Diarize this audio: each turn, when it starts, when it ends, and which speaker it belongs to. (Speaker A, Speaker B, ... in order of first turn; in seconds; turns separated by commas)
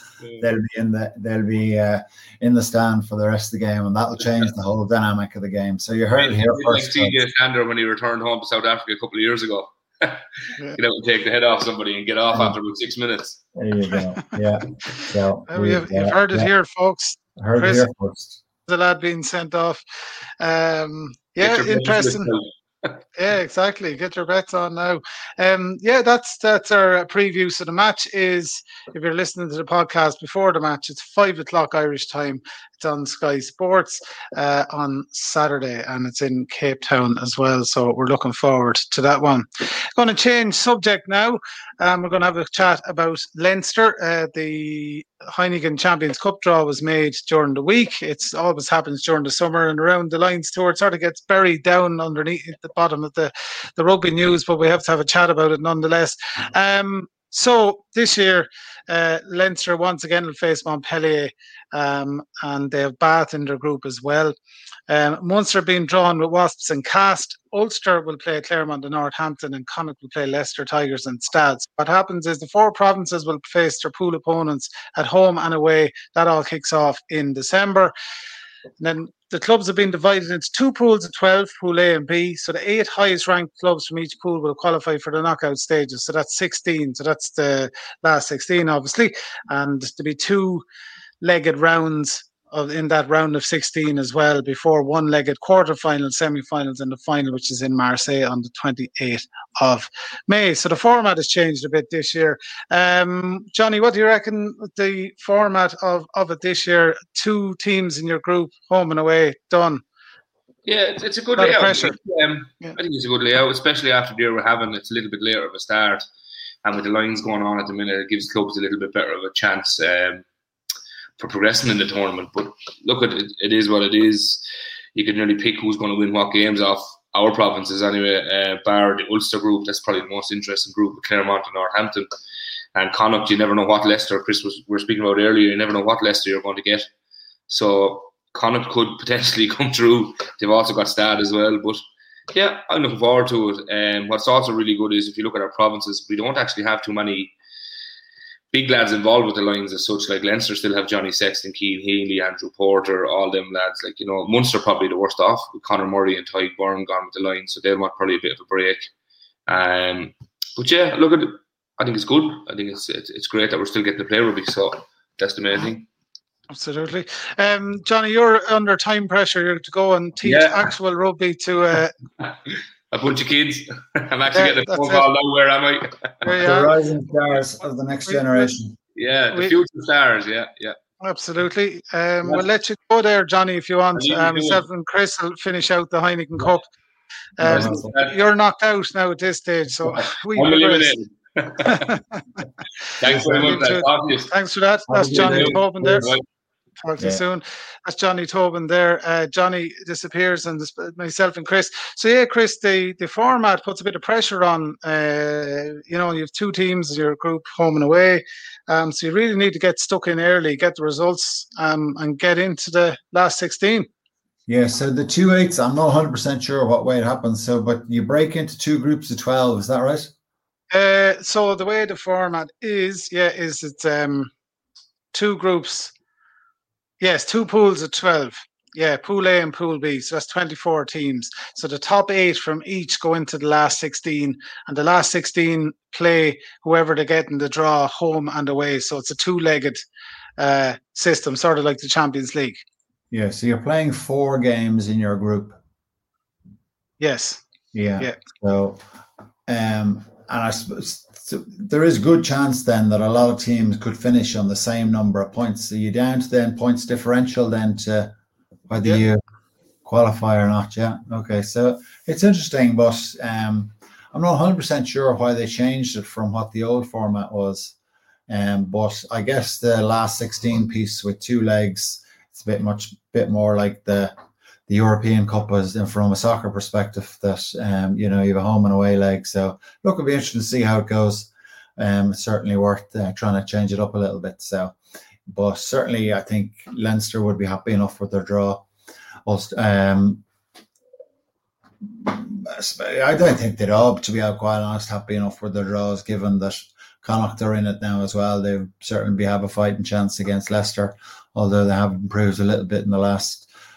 Speaker A: 0.4-7.2, Speaker B: 6.2-13.4, Speaker A: 13.6-16.5, Speaker C: 15.5-17.9, Speaker A: 17.4-18.4, Speaker C: 18.7-19.8, Speaker C: 20.4-22.3, Speaker B: 21.4-22.9, Speaker C: 23.1-64.3, Speaker C: 64.9-77.9, Speaker C: 78.8-90.6, Speaker C: 91.2-109.8, Speaker B: 110.7-116.0, Speaker C: 111.4-112.0, Speaker B: 116.6-120.2, Speaker B: 121.2-132.1, Speaker B: 132.7-136.9, Speaker B: 137.5-141.8, Speaker B: 142.3-147.3, Speaker B: 148.5-158.9, Speaker B: 159.5-165.8, Speaker C: 166.5-171.9, Speaker B: 170.2-170.7, Speaker B: 172.2-176.4, Speaker C: 174.3-175.1, Speaker C: 176.2-176.7, Speaker A: 176.4-178.8, Speaker C: 178.1-178.5, Speaker B: 178.9-180.8, Speaker C: 181.0-186.7, Speaker B: 183.9-184.6, Speaker C: 187.4-190.9, Speaker A: 187.4-187.9, Speaker B: 187.4-188.1, Speaker B: 189.9-191.9, Speaker C: 191.6-192.2, Speaker B: 193.0-194.3, Speaker A: 193.0-193.6, Speaker C: 193.1-196.1, Speaker A: 194.9-196.1, Speaker B: 195.1-196.2, Speaker C: 196.8-213.9, Speaker A: 214.5-220.1, Speaker C: 220.7-224.3, Speaker C: 225.1-225.9, Speaker C: 227.0-239.8, Speaker C: 240.4-242.6, Speaker A: 243.1-245.6, Speaker C: 247.0-247.4, Speaker A: 247.7-248.8, Speaker A: 249.5-258.1, Speaker A: 258.7-259.2, Speaker A: 259.8-267.7, Speaker A: 268.3-274.1, Speaker A: 274.7-284.8, Speaker A: 285.3-288.6, Speaker A: 289.2-290.2, Speaker A: 291.8-303.5